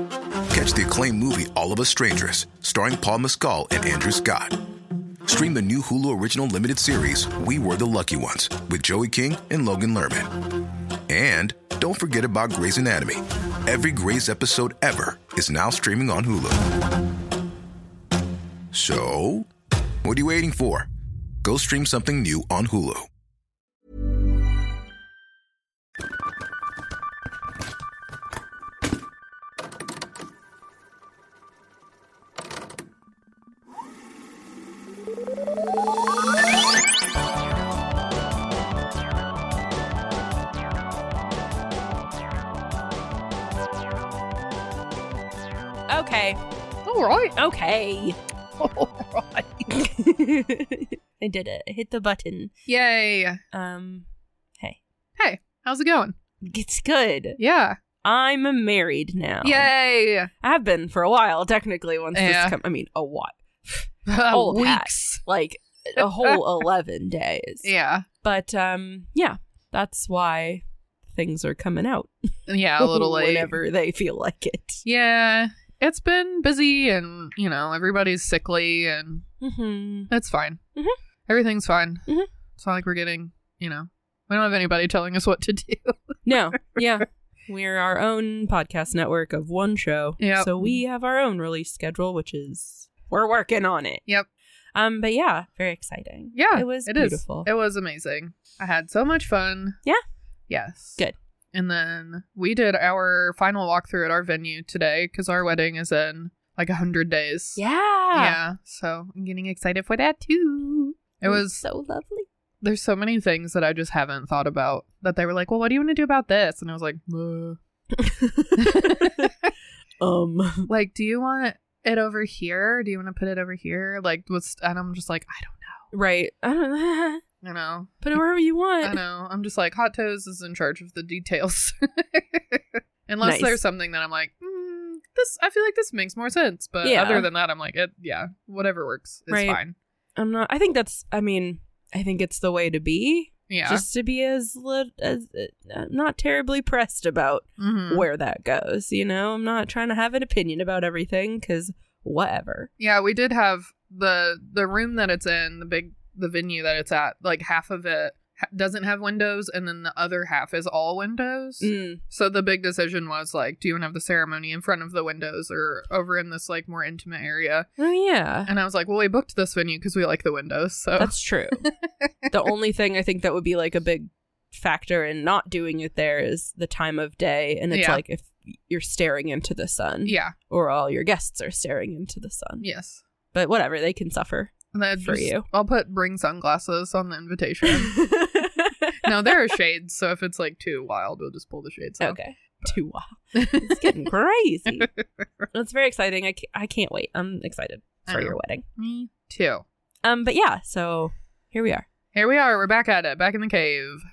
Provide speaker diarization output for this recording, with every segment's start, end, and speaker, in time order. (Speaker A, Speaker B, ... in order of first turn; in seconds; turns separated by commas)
Speaker A: 0.5-4.6, Speaker A: 5.2-10.3, Speaker A: 11.1-16.7, Speaker A: 18.7-19.5, Speaker A: 20.0-20.9, Speaker A: 21.4-23.1, Speaker B: 45.9-46.4, Speaker C: 46.9-47.3, Speaker B: 47.4-48.2, Speaker C: 48.6-49.7, Speaker B: 49.7-52.5, Speaker C: 52.7-53.4, Speaker B: 53.5-54.1, Speaker C: 55.2-56.1, Speaker B: 56.4-57.4, Speaker C: 57.4-57.8, Speaker B: 58.0-59.7, Speaker C: 59.4-60.3, Speaker B: 60.4-67.7, Speaker C: 62.1-62.6, Speaker C: 64.1-65.2, Speaker C: 66.0-66.4, Speaker C: 67.6-68.0, Speaker B: 68.2-74.8, Speaker C: 72.5-73.5, Speaker C: 74.8-79.2, Speaker B: 79.4-80.1, Speaker C: 80.1-80.6, Speaker C: 81.3-86.9, Speaker B: 86.2-94.0, Speaker C: 90.2-90.8, Speaker B: 94.7-97.5, Speaker C: 96.3-99.8, Speaker C: 100.5-101.0, Speaker C: 101.5-107.6, Speaker B: 107.6-108.4, Speaker C: 108.1-111.6, Speaker B: 111.2-112.3, Speaker C: 112.6-117.6, Speaker B: 117.9-119.3, Speaker C: 118.6-119.5, Speaker B: 120.0-120.7, Speaker C: 120.7-125.9, Speaker B: 125.9-127.2, Speaker C: 127.4-128.0, Speaker B: 128.0-129.0, Speaker C: 128.8-139.7, Speaker B: 133.2-133.6, Speaker B: 136.8-137.3, Speaker B: 139.3-139.6, Speaker B: 140.2-152.7, Speaker C: 143.5-143.8, Speaker C: 147.6-148.0, Speaker C: 152.8-167.7, Speaker B: 161.6-162.0, Speaker B: 167.8-168.5, Speaker C: 168.5-172.3, Speaker B: 171.0-171.7, Speaker B: 172.3-182.6, Speaker C: 177.7-178.0, Speaker C: 180.1-180.3, Speaker C: 182.6-183.0, Speaker B: 183.3-185.4, Speaker C: 184.7-188.0, Speaker B: 187.7-189.5, Speaker C: 189.0-192.7, Speaker B: 192.0-194.9, Speaker C: 193.3-193.9, Speaker B: 195.5-198.6, Speaker C: 198.1-199.6, Speaker B: 200.0-201.8, Speaker C: 202.1-204.0